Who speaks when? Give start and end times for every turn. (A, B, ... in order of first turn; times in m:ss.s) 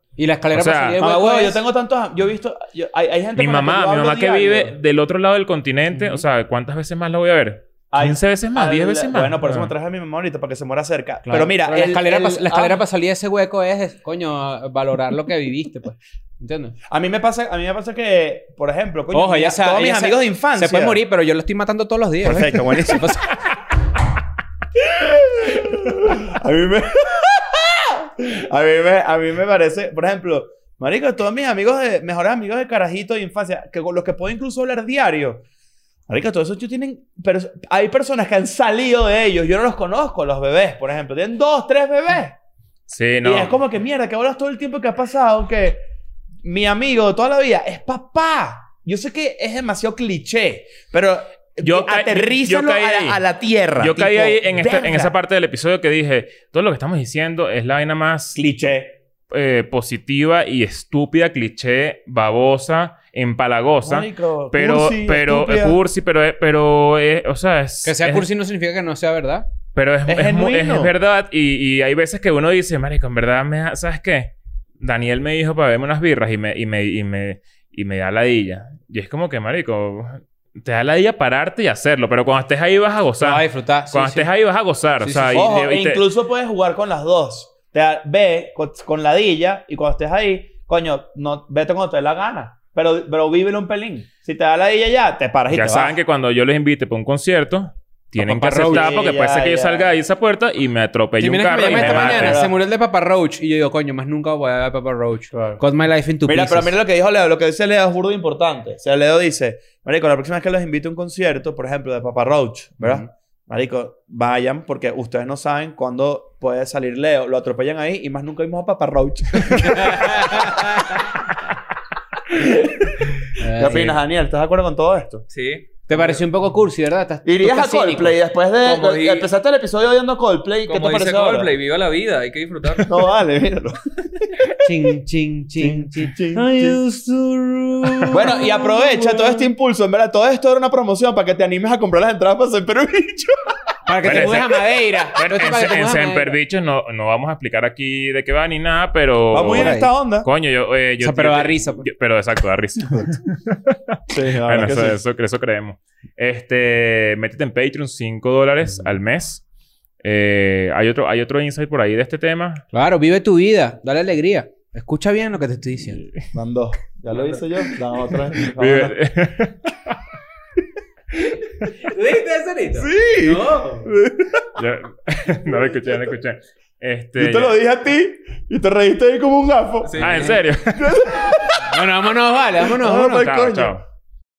0:00.2-0:01.6 A
0:00.5-0:01.0 B
0:01.0-0:04.8 C
0:03.4-0:09.7 B
0:05.9-0:06.2 A
0:07.9-0:12.8 C
0:11.3-0:16.8 A
0:16.9-0:21.0 C
0:19.1-0:23.3 A
0:22.2-0:23.1 C
0:24.8-0:35.4 C
0:36.1-0:42.4 C
0:42.9-0:43.6 B
0:43.2-0:45.8 C
0:46.4-0:55.1 C
0:51.6-0:53.2 B
0:53.8-0:58.4 B
0:58.4-0:59.0 C
0:59.3-1:08.2 B
1:03.8-1:05.8 C
1:07.8-1:09.5 A
1:09.8-1:26.0 B
1:10.1-1:10.9 C
1:23.2-1:24.3 A
1:25.0-1:25.4 A
1:25.1-1:36.0 C
1:35.5-1:42.4 B
1:38.2-1:39.0 A
1:38.6-1:39.9 C
1:41.2-1:46.8 A
1:41.6-1:42.6 C
1:45.3-1:45.6 C
1:46.2-2:01.0 C
1:52.8-1:53.1 A
1:59.4-2:01.0 A
2:02.3-2:05.3 C
2:03.4-2:04.0 A
2:05.3-2:06.2 D
2:05.9-2:08.2 A
2:07.2-2:11.5 C
2:08.6-2:09.3 D
2:10.7-2:13.1 D
2:12.8-2:14.7 C
2:14.6-2:19.5 A
2:15.6-2:16.8 C
2:18.1-2:24.5 C
2:23.9-2:26.3 A
2:24.0-2:24.6 B
2:25.2-2:39.4 B
2:29.3-2:30.3 C
2:29.5-2:29.9 A
2:31.0-2:31.9 A
2:34.1-2:35.0 C
2:40.0-2:42.6 B
2:42.7-2:46.0 A
2:46.3-2:49.0 C
2:48.3-2:50.0 B
2:51.6-2:53.9 A
2:52.8-2:54.5 C
2:54.6-2:57.6 B
2:57.2-3:01.8 C
2:59.8-3:00.4 D
3:00.0-3:01.1 B
3:01.6-3:03.1 A
3:02.6-3:03.8 C
3:02.8-3:03.8 B